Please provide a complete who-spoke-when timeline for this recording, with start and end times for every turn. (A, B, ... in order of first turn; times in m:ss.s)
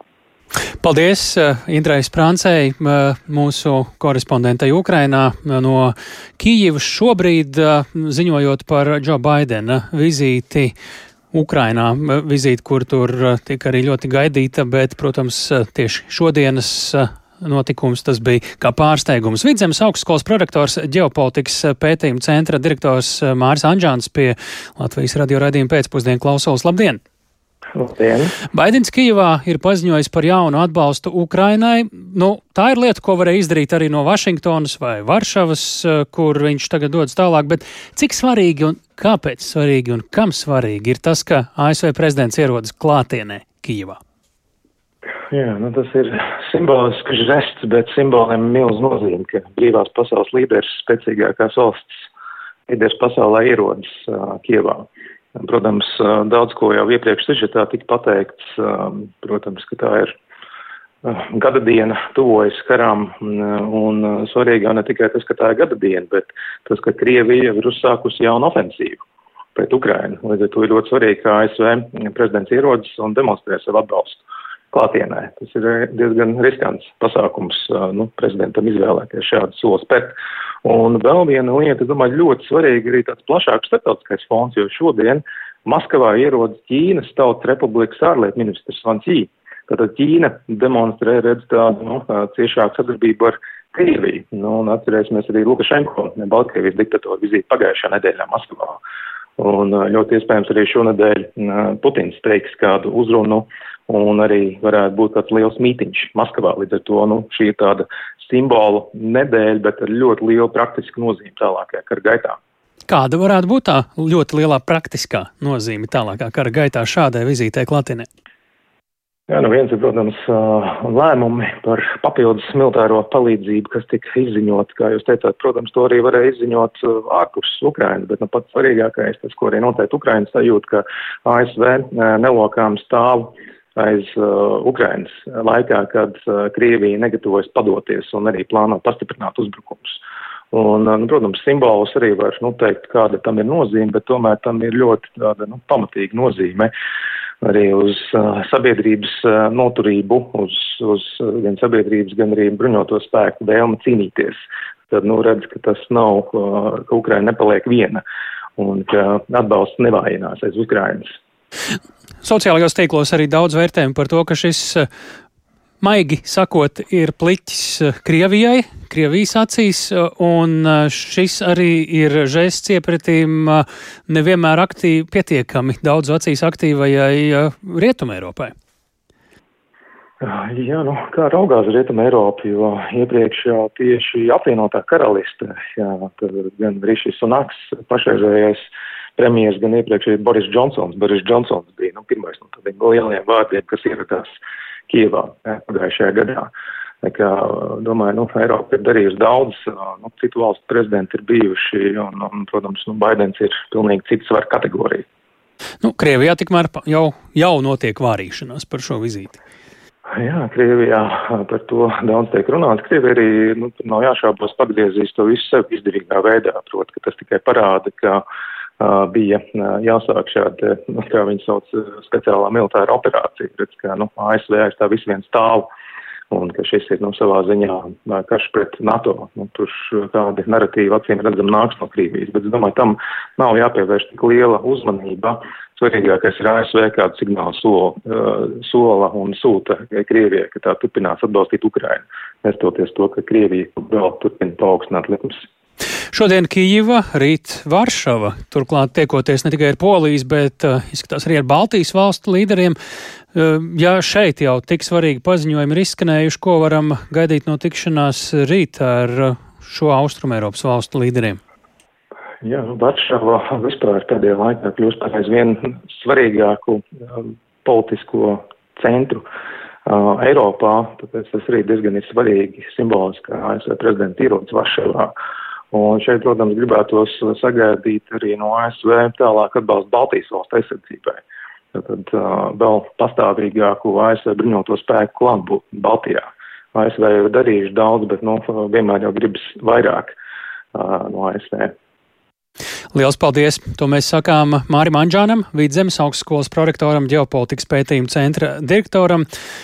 0:00.8-0:10.7 A
0:11.3-0:27.0 A
0:27.7-0:28.3 B
0:28.5-0:44.0 A
0:45.3-0:51.8 B
0:52.7-1:00.1 B
1:01.0-1:09.0 B
1:09.6-1:38.8 B
1:39.4-1:52.4 B
1:52.9-1:58.1 A
1:59.3-2:20.0 B
2:20.5-2:26.7 B
2:27.4-2:34.4 B
2:34.9-2:38.0 B
2:38.6-2:41.1 B
2:42.2-2:44.9 A
2:45.8-2:58.5 A
3:00.2-3:14.3 B
3:14.9-3:16.5 B
3:17.0-3:25.0 B
3:25.8-3:29.4 A
3:30.1-3:38.2 B
3:38.8-3:45.7 B
3:46.3-4:05.4 B
4:06.1-4:12.8 A
4:13.3-4:21.4 A
4:22.4-4:29.2 B
4:29.8-4:35.1 B
4:35.7-4:41.2 B
4:41.7-4:50.1 B
4:50.7-4:51.7 B
4:52.9-4:59.2 A